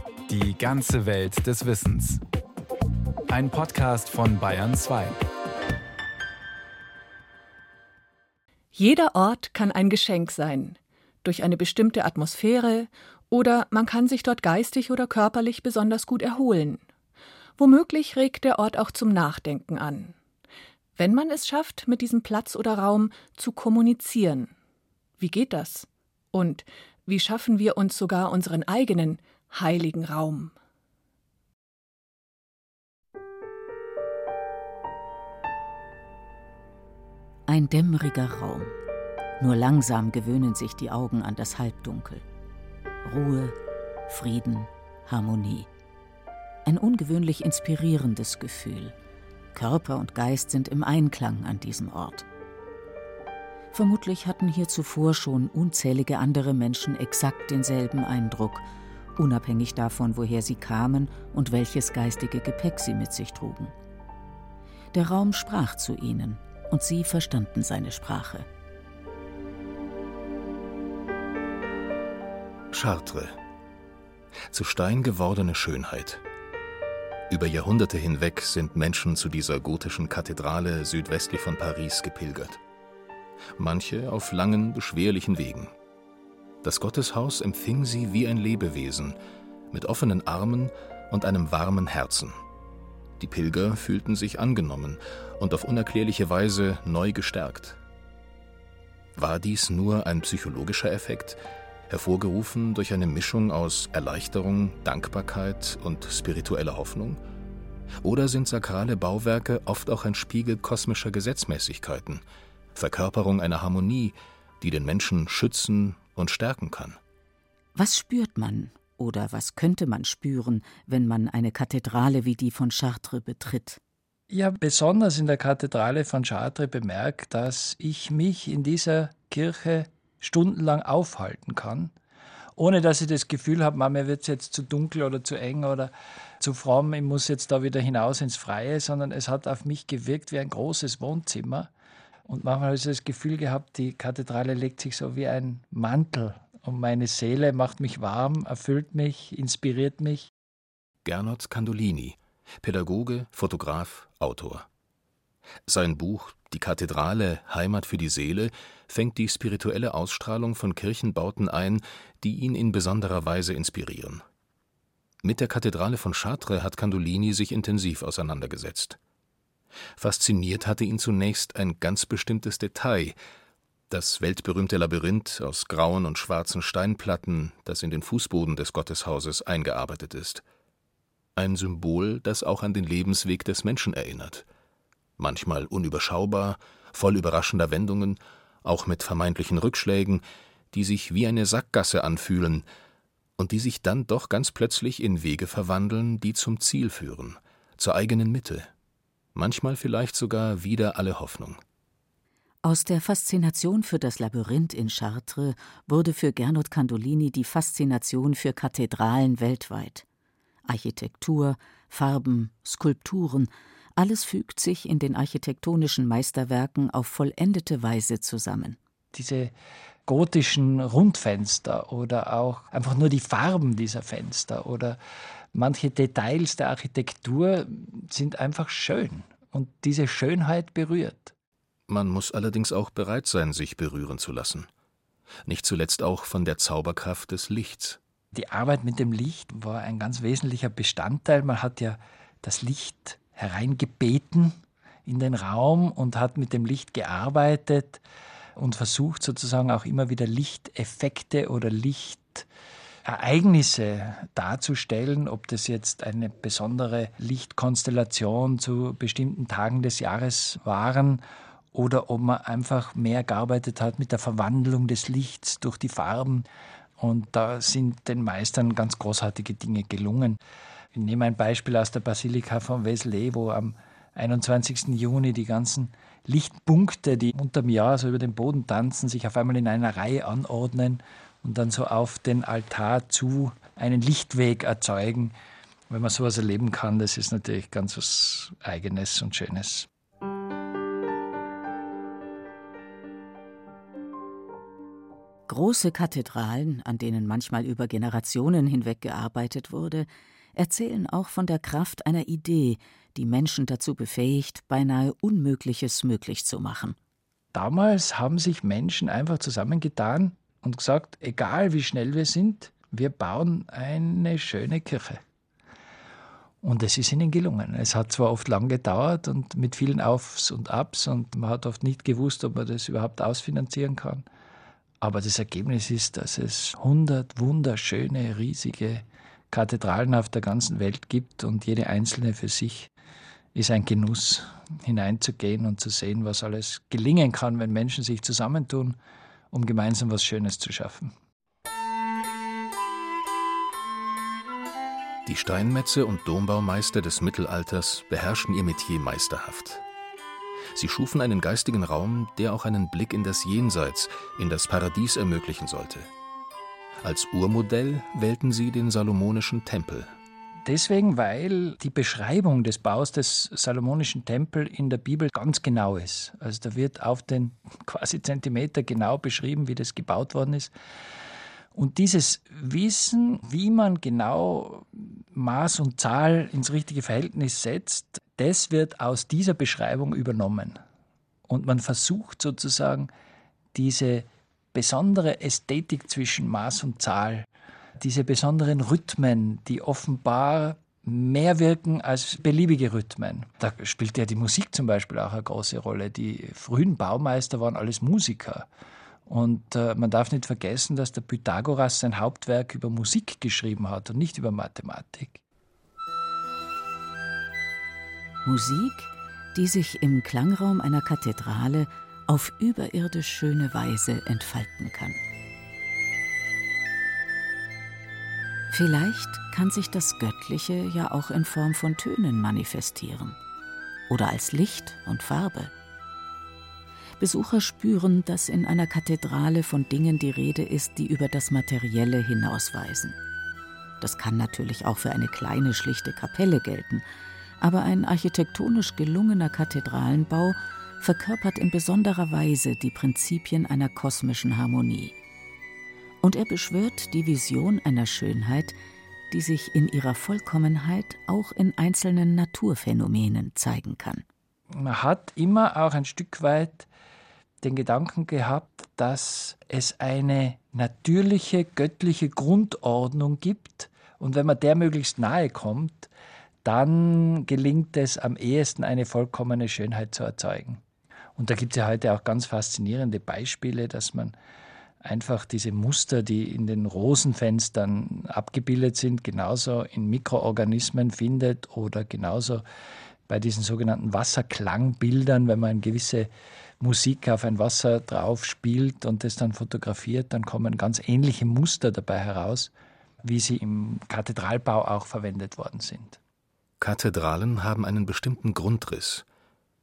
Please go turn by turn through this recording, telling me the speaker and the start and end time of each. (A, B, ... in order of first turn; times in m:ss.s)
0:00.3-0:02.2 A
0:03.3-0:05.2 A
0:08.7-0:16.8 B
0:17.6-0:20.2 B
0:21.0-0:24.5 B
0:25.2-0:30.5 B
0:37.5-0:38.7 C
0:39.4-0:42.2 C
0:43.0-0:43.6 C
0:44.1-0:45.7 C
0:46.6-0:48.9 C
0:49.5-0:52.3 C
0:53.7-1:03.7 C
1:04.9-1:08.5 C
1:12.7-1:13.4 D
1:14.5-1:16.2 D
1:17.3-1:22.6 D
1:23.6-1:25.7 D
1:26.6-1:29.2 D
1:29.7-1:32.4 D
1:33.2-1:37.8 D
1:39.2-1:47.2 D
1:48.0-1:52.2 D
1:52.8-1:57.0 D
1:57.8-2:03.8 C
2:04.3-2:11.9 E
2:12.6-2:21.7 E
2:22.3-2:30.3 E
2:31.0-2:34.7 D
2:35.7-2:44.2 D
2:45.2-2:49.0 D
2:50.0-2:53.2 D
2:53.9-3:00.4 D
3:01.4-3:04.4 D
3:05.2-3:12.6 D
3:13.4-3:18.7 D
3:19.4-3:21.6 D
3:22.6-3:30.0 C
3:30.7-3:38.8 C
3:39.1-3:39.5 E
3:40.1-3:45.0 E
3:45.5-3:51.3 E
3:51.9-3:54.7 D
3:55.4-3:58.0 D
3:58.3-4:08.0 E
4:08.6-4:12.5 E
4:13.0-4:21.2 E
4:21.7-4:26.5 E
4:27.0-4:30.4 E
4:30.9-4:45.4 E
4:45.9-4:49.9 E
4:55.5-5:07.0 C
5:07.5-5:15.2 E
5:16.6-5:24.3 E
5:25.0-5:32.9 E
5:33.6-5:39.0 E
5:39.5-5:41.1 E
5:45.3-5:49.8 D
5:50.7-5:56.1 D
5:57.0-6:00.1 D
6:00.6-6:10.7 E
6:11.7-6:20.8 E
6:21.5-6:23.1 E
6:23.7-6:27.5 E
6:28.0-6:38.7 E
6:39.3-6:45.4 E
6:48.4-6:55.2 C
6:58.7-7:03.4 C
7:04.1-7:05.7 C
7:07.2-7:13.2 C
7:14.0-7:17.0 C
7:17.6-7:25.2 C
7:26.2-7:28.8 C
7:29.3-7:34.2 C
7:34.7-7:36.9 E
7:37.6-7:46.1 E
7:46.6-7:50.8 E
7:51.4-7:54.4 E
7:55.0-8:02.6 E
8:03.3-8:12.7 E
8:13.2-8:16.2 E
8:16.8-8:19.2 D